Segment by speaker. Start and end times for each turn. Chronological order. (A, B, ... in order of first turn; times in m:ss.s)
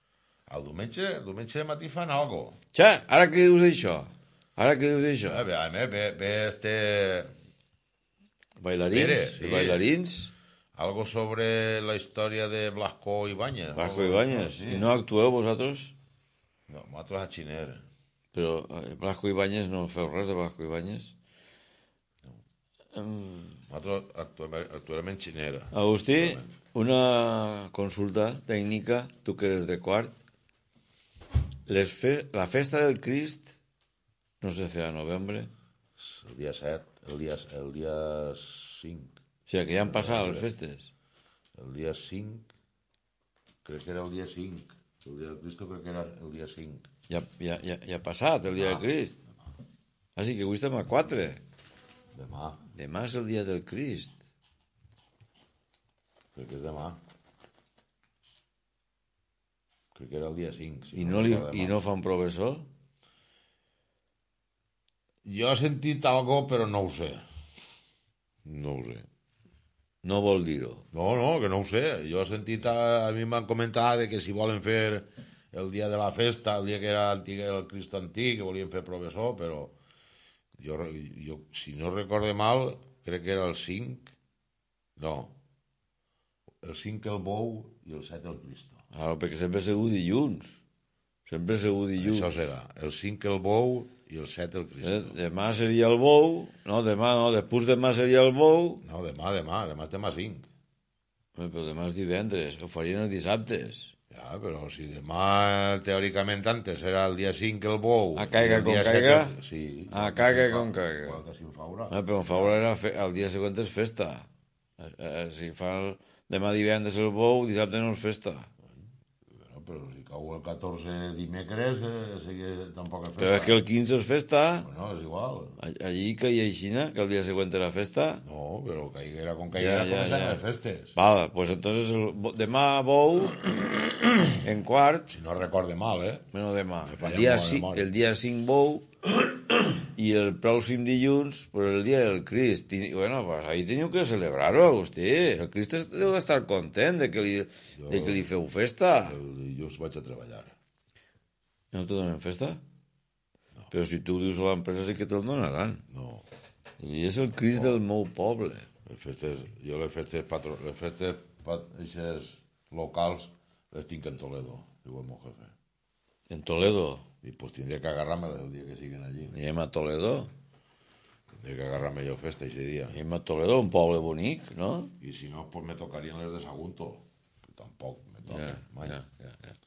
0:00.5-0:02.6 A
0:02.7-0:05.4 B
0:05.2-0:07.3 A
0:08.6-0:10.3 B
0:08.9-0:09.9 A
0:10.8-0:14.9 A
0:13.8-0:15.9 B
0:16.7-0:17.8 A
0:18.3-0:21.1 B
0:22.9-0:23.6 B
0:23.7-0:26.5 A
0:25.7-0:30.1 B
0:31.7-0:33.6 B
0:34.4-0:35.5 B
0:36.0-0:39.2 A
0:39.5-0:40.9 B
0:39.8-0:40.5 A
0:41.6-0:42.5 A
0:43.6-0:46.9 A
0:47.1-0:49.2 B
0:48.5-0:48.9 A
0:50.2-0:51.4 B
0:52.1-0:52.6 A
0:52.7-0:54.2 B
0:56.4-0:57.0 A
0:59.9-1:01.8 A
1:00.9-1:02.7 B
1:05.2-1:07.2 A
1:08.4-1:09.1 A
1:10.0-1:10.8 B
1:10.9-1:19.8 A
1:20.6-1:24.1 A
1:25.0-1:25.4 A
1:26.6-1:28.8 A
1:28.9-1:30.6 B
1:31.3-1:32.5 B
1:32.0-1:35.2 A
1:34.8-1:38.8 B
1:38.8-1:40.5 A
1:41.4-1:43.9 B
1:44.1-1:52.6 A
1:48.2-1:49.3 B
1:49.9-1:51.2 B
1:51.9-1:54.3 B
1:54.8-1:58.5 B
1:59.3-2:03.6 A
2:03.2-2:04.7 B
2:04.6-2:05.6 A
2:05.6-2:08.2 B
2:08.2-2:11.0 A
2:09.5-2:10.4 B
2:11.0-2:15.1 B
2:15.1-2:16.3 A
2:16.3-2:18.9 B
2:16.9-2:17.9 A
2:19.8-2:29.2 B
2:27.8-2:28.3 A
2:29.0-2:30.6 A
2:31.7-2:32.6 B
2:33.7-2:35.8 B
2:35.9-2:36.3 A
2:36.8-2:38.7 B
2:38.8-2:45.5 A
2:46.3-2:47.0 B
2:47.2-2:49.3 A
2:49.3-2:50.3 B
2:51.3-2:53.0 A
2:52.9-2:54.9 B
2:55.0-2:59.0 A
2:58.3-2:59.4 B